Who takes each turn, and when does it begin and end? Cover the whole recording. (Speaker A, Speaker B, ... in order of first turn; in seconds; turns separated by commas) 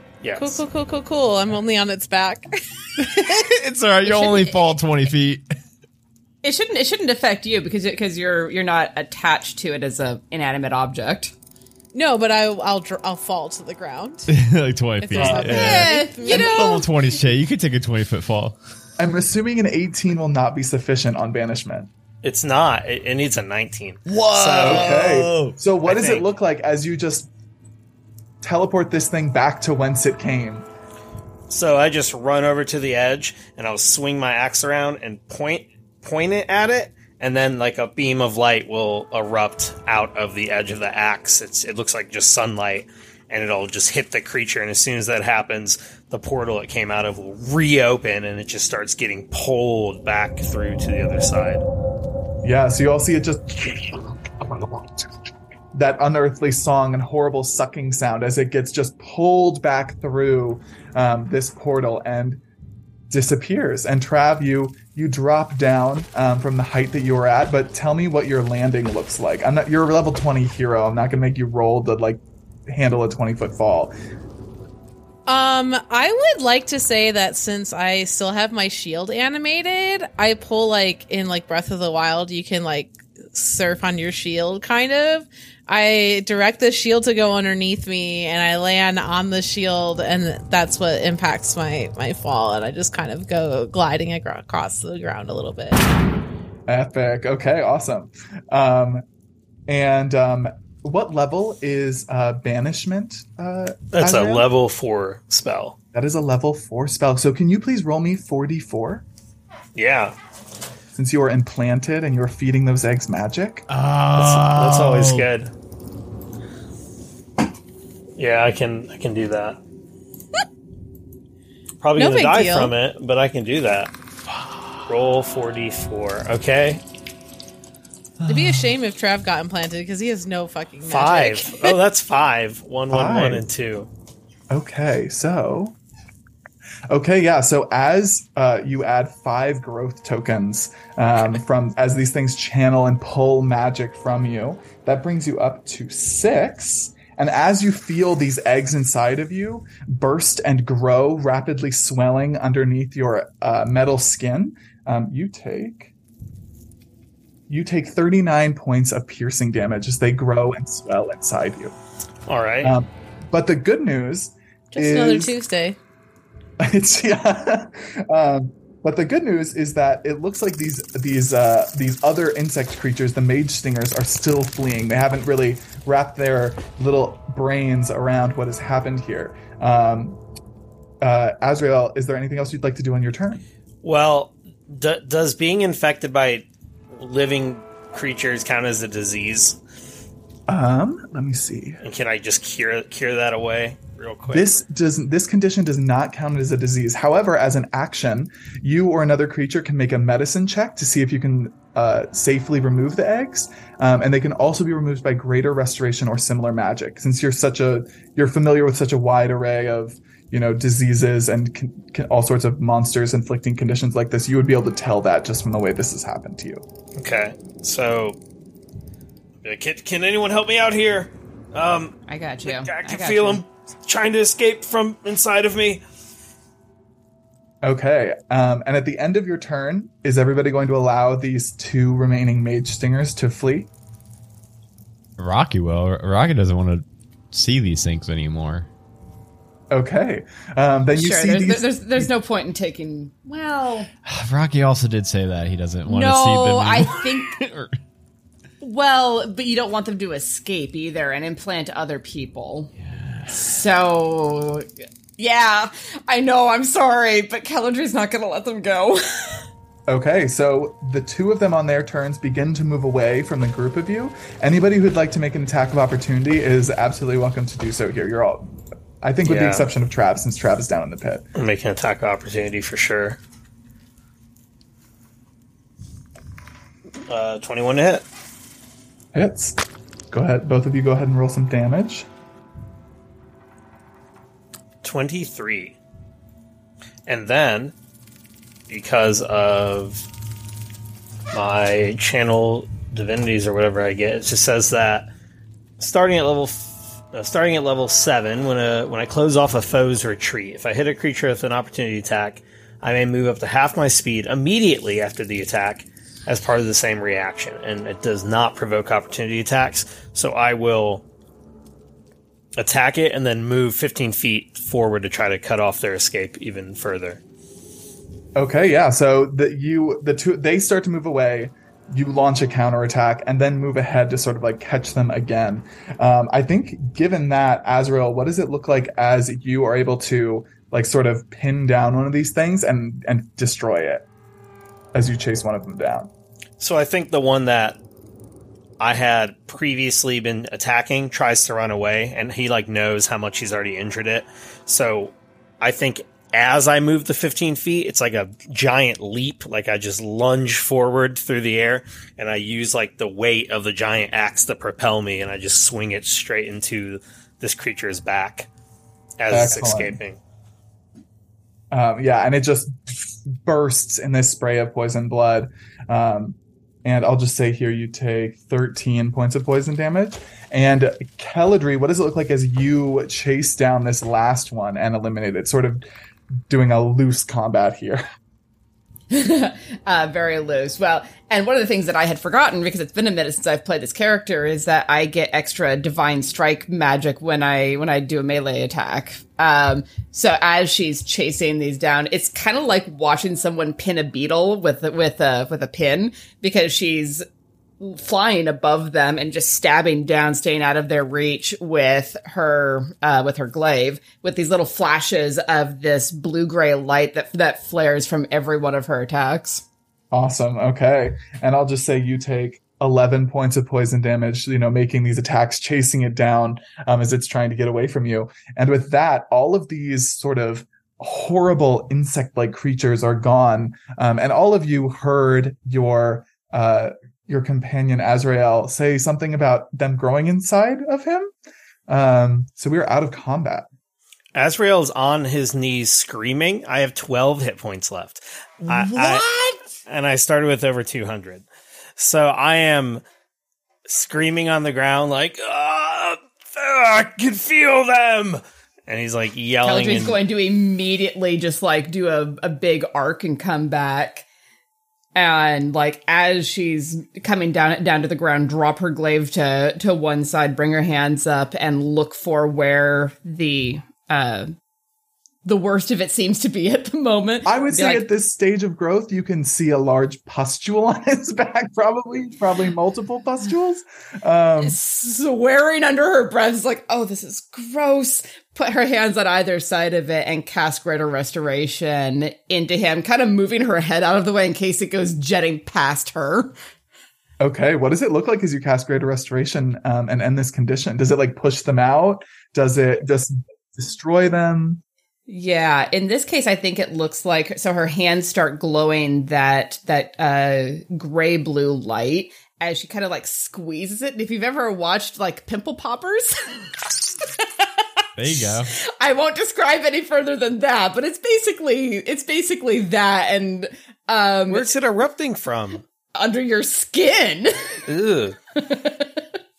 Speaker A: 0.2-0.6, Speaker B: 0.4-3.4, Speaker C: 3.0-5.4, Speaker B: 4.1-4.6, Speaker D: 6.4-11.3, Speaker B: 11.9-14.3, Speaker C: 14.3-18.6, Speaker B: 15.0-16.9, Speaker A: 15.2-15.5, Speaker D: 15.4-16.9, Speaker E: 19.0-21.9, Speaker A: 22.2-25.2, Speaker C: 24.1-25.6, Speaker E: 24.6-27.3, Speaker A: 25.8-26.2, Speaker E: 28.4-30.6, Speaker A: 31.5-51.6, Speaker E: 52.4-55.1, Speaker E: 55.7-62.4, Speaker E: 63.1-73.9, Speaker B: 75.3-95.8, Speaker E: 96.7-99.0, Speaker E: 99.7-104.5, Speaker A: 103.9-105.8, Speaker E: 105.9-109.0, Speaker A: 109.7-110.1, Speaker E: 110.9-113.6, Speaker C: 113.7-115.3, Speaker A: 114.2-115.5, Speaker A: 118.2-119.6, Speaker A: 121.8-123.9, Speaker B: 122.0-122.7, Speaker C: 124.3-124.8, Speaker A: 124.9-126.8, Speaker C: 128.2-128.7, Speaker B: 128.3-131.7, Speaker A: 130.8-133.9, Speaker E: 132.9-133.4, Speaker E: 134.5-135.8, Speaker E: 136.9-155.9, Speaker E: 157.5-161.7, Speaker A: 162.3-162.8, Speaker E: 162.6-165.3, Speaker B: 164.7-165.8, Speaker E: 166.6-180.2, Speaker E: 181.0-183.4, Speaker A: 183.8-189.6, Speaker E: 190.5-191.8, Speaker A: 191.8-194.6, Speaker E: 194.3-216.6, Speaker A: 216.9-218.2, Speaker A: 219.4-221.9, Speaker D: 222.1-223.4, Speaker A: 222.4-225.8, Speaker E: 227.6-233.7, Speaker C: 235.2-238.7, Speaker E: 239.7-242.1, Speaker D: 240.9-243.9, Speaker C: 244.0-247.8, Speaker D: 245.8-247.3, Speaker D: 248.6-252.7, Speaker C: 252.9-253.5, Speaker D: 253.3-259.5, Speaker E: 259.9-271.2, Speaker A: 269.2-269.7, Speaker A: 271.3-273.2, Speaker A: 277.1-278.0, Speaker E: 279.1-279.6, Speaker E: 280.1-282.1, Speaker A: 284.8-285.8, Speaker A: 287.1-287.7, Speaker A: 288.7-290.1, Speaker A: 291.3-295.1, Speaker A: 295.8-311.0, Speaker A: 312.6-317.2, Speaker E: 318.4-334.1, Speaker E: 334.9-336.1, Speaker A: 336.6-337.8, Speaker A: 338.8-358.5, Speaker A: 359.2-360.2, Speaker E: 359.3-360.0, Speaker E: 361.7-375.8, Speaker E: 376.5-378.0, Speaker D: 379.1-397.2, Speaker D: 397.8-409.6, Speaker E: 410.1-431.3, Speaker E: 431.9-433.7, Speaker A: 434.3-439.3, Speaker C: 438.7-439.5, Speaker A: 439.9-441.4, Speaker A: 442.0-443.0, Speaker A: 443.9-450.2, Speaker D: 449.6-454.2, Speaker D: 455.1-464.5, Speaker D: 465.4-468.0, Speaker E: 467.4-474.8, Speaker D: 474.6-486.5, Speaker E: 487.4-494.8, Speaker D: 495.3-514.7, Speaker C: 508.2-508.7, Speaker A: 514.5-515.8, Speaker D: 516.1-517.8, Speaker A: 517.9-518.4, Speaker D: 518.5-519.2